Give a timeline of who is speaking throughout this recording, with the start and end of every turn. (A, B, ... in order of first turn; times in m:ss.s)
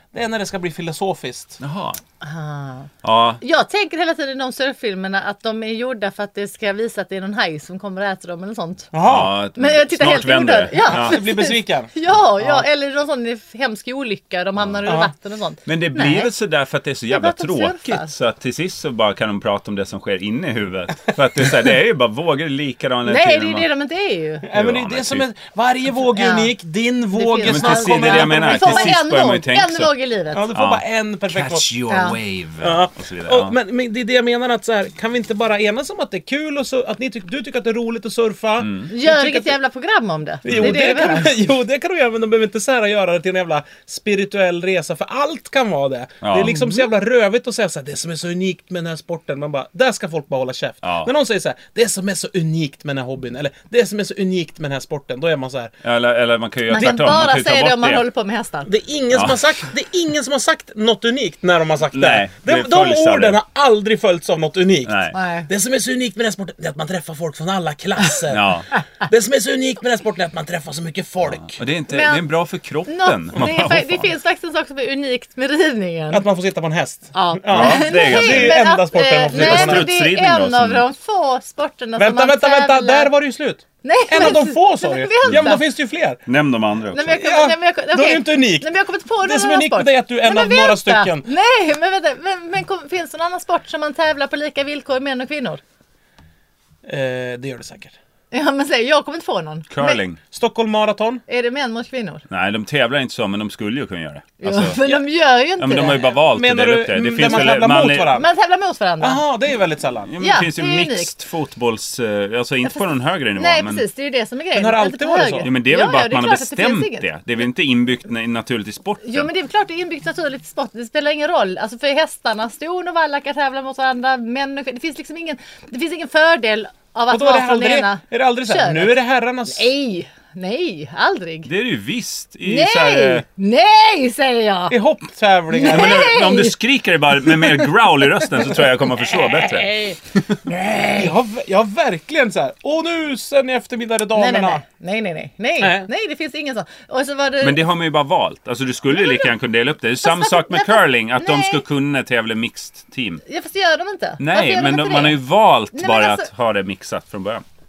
0:00.1-0:01.6 A
0:01.6-0:02.0 B
0:02.2-0:02.9 C
0:03.0-0:03.4 B
0:03.4-0:08.9 C
0:08.9-0:09.4 A
0:09.1-0:11.2 B
0:09.6-0:16.3 C
0:10.8-0:12.6 A
0:14.9-0:15.1 A
0:15.7-0:23.7 B
0:17.1-0:18.1 C
0:23.1-0:24.5 C
0:24.4-0:29.0 A
0:24.5-0:25.3 B
0:26.1-0:26.5 C
0:27.1-0:30.5 C
0:27.5-0:30.0 B
0:30.3-0:31.7 A
0:30.5-0:33.6 B
0:31.9-0:32.2 C
0:32.6-0:39.5 A
0:38.6-0:38.9 B
0:38.9-0:41.4 C
0:40.4-0:55.7 A
0:40.5-0:40.8 B
0:46.2-0:46.6 B
0:46.5-0:46.8 C
0:50.8-0:51.1 B
0:55.8-0:58.0 B
0:56.7-0:58.7 C
0:56.8-0:57.1 A
0:58.7-1:11.6 A
0:59.1-0:59.4 B
1:01.9-1:03.4 B
1:04.9-1:05.2 B
1:05.1-1:05.5 C
1:08.3-1:08.7 B
1:11.5-1:14.1 B
1:11.9-1:12.2 C
1:12.9-1:16.2 C
1:16.1-1:19.9 A
1:17.1-1:23.1 C
1:17.5-1:18.6 B
1:19.3-1:20.8 B
1:22.0-1:26.2 A
1:23.8-1:25.6 C
1:25.3-1:25.5 B
1:26.3-1:27.2 B
1:26.9-1:35.6 C
1:27.1-1:31.3 A
1:36.9-1:38.0 A
1:38.3-1:40.0 C
1:39.7-1:40.2 B
1:40.3-1:41.2 A
1:41.3-1:42.2 C
1:42.3-1:44.9 B
1:44.4-1:46.2 C
1:45.6-1:48.1 B
1:46.3-1:48.3 A
1:47.2-1:49.2 C
1:49.0-1:50.1 A
1:50.1-1:53.8 B
1:50.2-1:51.1 C
1:53.4-1:57.1 C
1:54.6-1:55.5 A
1:55.4-1:59.3 B
1:59.0-2:09.0 C
2:07.1-2:09.7 A
2:09.5-2:11.5 C
2:11.5-2:13.2 B
2:12.5-2:14.8 C
2:14.7-2:16.1 A
2:15.5-2:16.6 C
2:15.6-2:20.4 B
2:17.3-2:17.7 C
2:18.9-2:21.1 C
2:20.9-2:24.6 A
2:24.2-2:27.6 C
2:25.6-2:25.9 A
2:27.4-2:33.2 B
2:29.0-2:29.3 C
2:30.0-2:31.6 C
2:33.3-2:35.2 C
2:34.2-2:37.4 B
2:35.7-2:36.3 C